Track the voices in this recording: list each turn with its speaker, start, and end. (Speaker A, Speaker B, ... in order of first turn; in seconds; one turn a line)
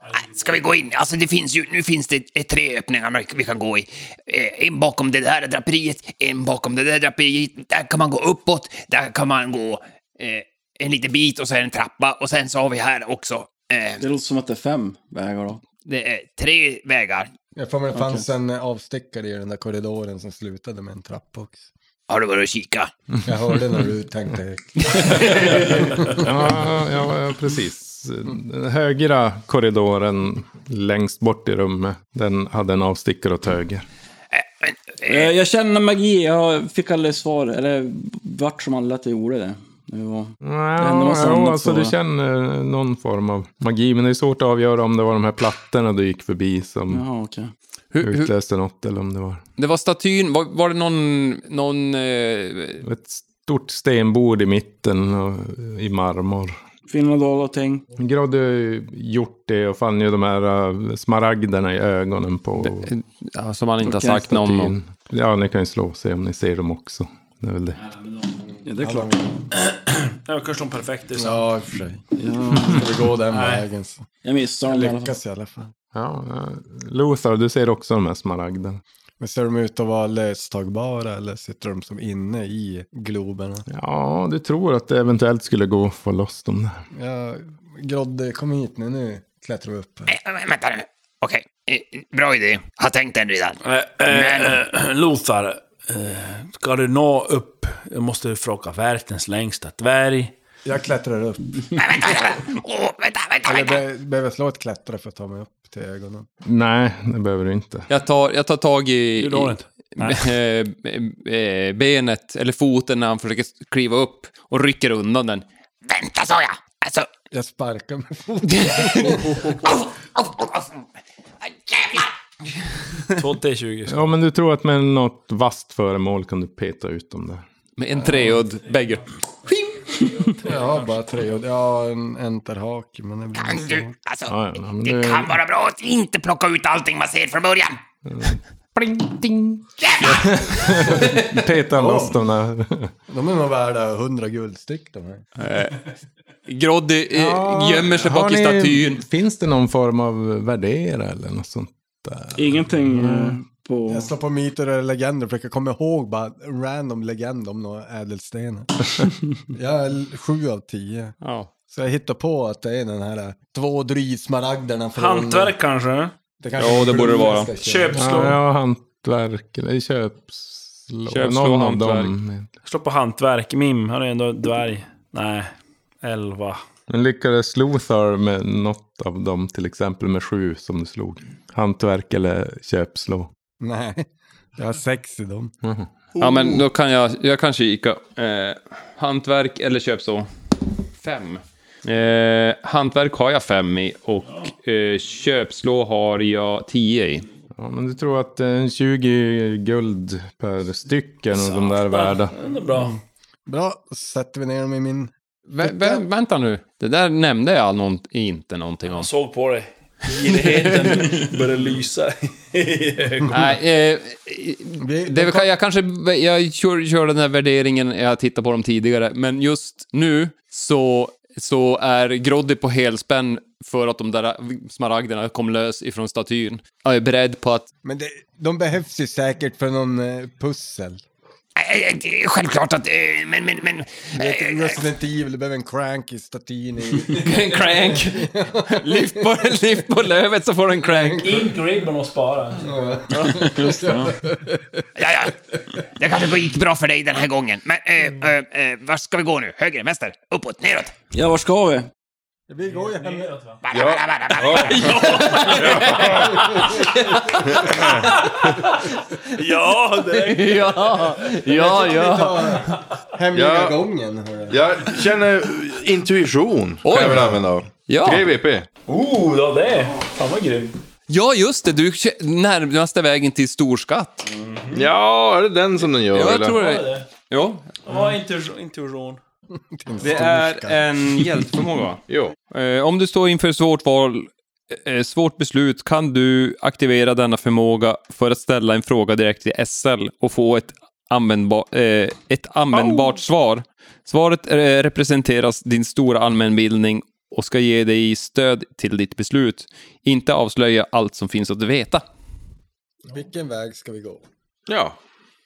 Speaker A: 0.2-14.0
Speaker B: 14.0-15.6
Speaker A: 15.8-17.3
Speaker C: 17.6-21.6
Speaker B: 17.9-18.2
Speaker A: 22.1-22.9
Speaker C: 23.2-26.3
Speaker D: 26.2-33.9
Speaker A: 34.3-35.3
Speaker B: 35.0-41.9
Speaker D: 40.4-47.0
Speaker B: 46.9-47.5
Speaker E: 47.9-48.3
Speaker D: 48.0-49.4
Speaker E: 49.6-52.8
Speaker D: 52.8-56.6
Speaker B: 56.9-57.8
Speaker D: 58.0-62.9
Speaker E: 62.6-64.7
Speaker B: 63.8-64.3
Speaker D: 64.2-67.8
Speaker B: 68.7-69.3
Speaker C: 68.8-69.2
Speaker F: 69.7-71.4
Speaker C: 71.2-72.0
Speaker B: 72.2-72.9
Speaker C: 72.6-74.0
Speaker F: 73.3-73.6
Speaker B: 74.2-75.2
Speaker C: 74.6-75.7
Speaker D: 75.9-78.8
Speaker C: 79.2-83.7
Speaker D: 83.7-86.8
Speaker C: 86.9-90.1
Speaker A: 90.1-94.6
Speaker F: 93.6-100.3
Speaker C: 100.7-101.8
Speaker A: 101.8-103.8
Speaker C: 103.5-106.3
Speaker D: 106.4-107.9
Speaker E: 107.9-115.5
Speaker F: 109.2-110.3
Speaker A: 115.9-117.1
Speaker C: 117.3-119.5
Speaker E: 118.7-119.3
Speaker A: 119.5-120.8
Speaker A: 121.4-122.1
Speaker F: 123.2-124.1
Speaker D: 123.9-127.5
Speaker E: 127.8-129.6
Speaker C: 130.4-133.9
Speaker A: 133.4-137.8
Speaker D: 134.3-135.4
Speaker D: 138.1-142.9
Speaker A: 139.8-140.2
Speaker C: 140.2-142.2
Speaker C: 143.1-145.2
Speaker E: 145.4-145.8
Speaker E: 146.5-149.0
Speaker D: 147.1-153.4
Speaker B: 152.3-154.1
Speaker C: 153.9-161.2
Speaker E: 161.2-161.5
Speaker C: 161.7-165.6
Speaker F: 164.9-166.2
Speaker C: 166.4-168.3
Speaker E: 166.6-167.5
Speaker F: 167.6-168.4
Speaker D: 167.9-172.5
Speaker E: 171.1-172.1
Speaker F: 172.7-175.5
Speaker F: 176.0-176.6
Speaker D: 176.9-183.3
Speaker C: 183.6-185.5
Speaker D: 185.6-185.9
Speaker E: 186.2-190.3
Speaker E: 191.0-197.3
Speaker D: 197.6-202.3
Speaker F: 201.4-203.0
Speaker C: 203.5-206.0
Speaker E: 205.5-209.1
Speaker F: 208.9-213.4
Speaker E: 210.2-211.3
Speaker E: 213.3-227.7
Speaker C: 214.8-215.5
Speaker C: 227.8-231.0
Speaker A: 231.6-234.8
Speaker C: 234.2-239.1
Speaker E: 237.2-241.3
Speaker C: 240.9-241.5
Speaker F: 241.2-242.7
Speaker C: 242.6-244.8
Speaker B: 243.4-244.1
Speaker A: 245.0-250.9
Speaker B: 251.1-251.9
Speaker C: 252.5-253.6
Speaker F: 252.7-253.6
Speaker A: 253.6-255.1
Speaker G: 253.7-256.4
Speaker F: 254.7-256.1
Speaker E: 255.1-257.7
Speaker C: 256.3-256.8
Speaker G: 257.5-258.0
Speaker F: 257.6-258.8
Speaker F: 259.3-261.4
Speaker E: 260.1-262.5
Speaker C: 261.3-264.6
Speaker G: 263.3-263.8
Speaker G: 264.5-268.7
Speaker E: 266.9-267.3
Speaker E: 267.8-268.3
Speaker F: 268.9-270.8
Speaker E: 271.1-274.3
Speaker F: 274.3-274.9
Speaker G: 274.7-276.6
Speaker E: 276.1-277.8
Speaker F: 276.4-277.1
Speaker F: 277.9-279.2
Speaker C: 279.7-281.5
Speaker E: 280.0-302.0
Speaker G: 282.1-282.4
Speaker G: 292.7-293.1
Speaker C: 303.1-304.2
Speaker G: 304.7-305.0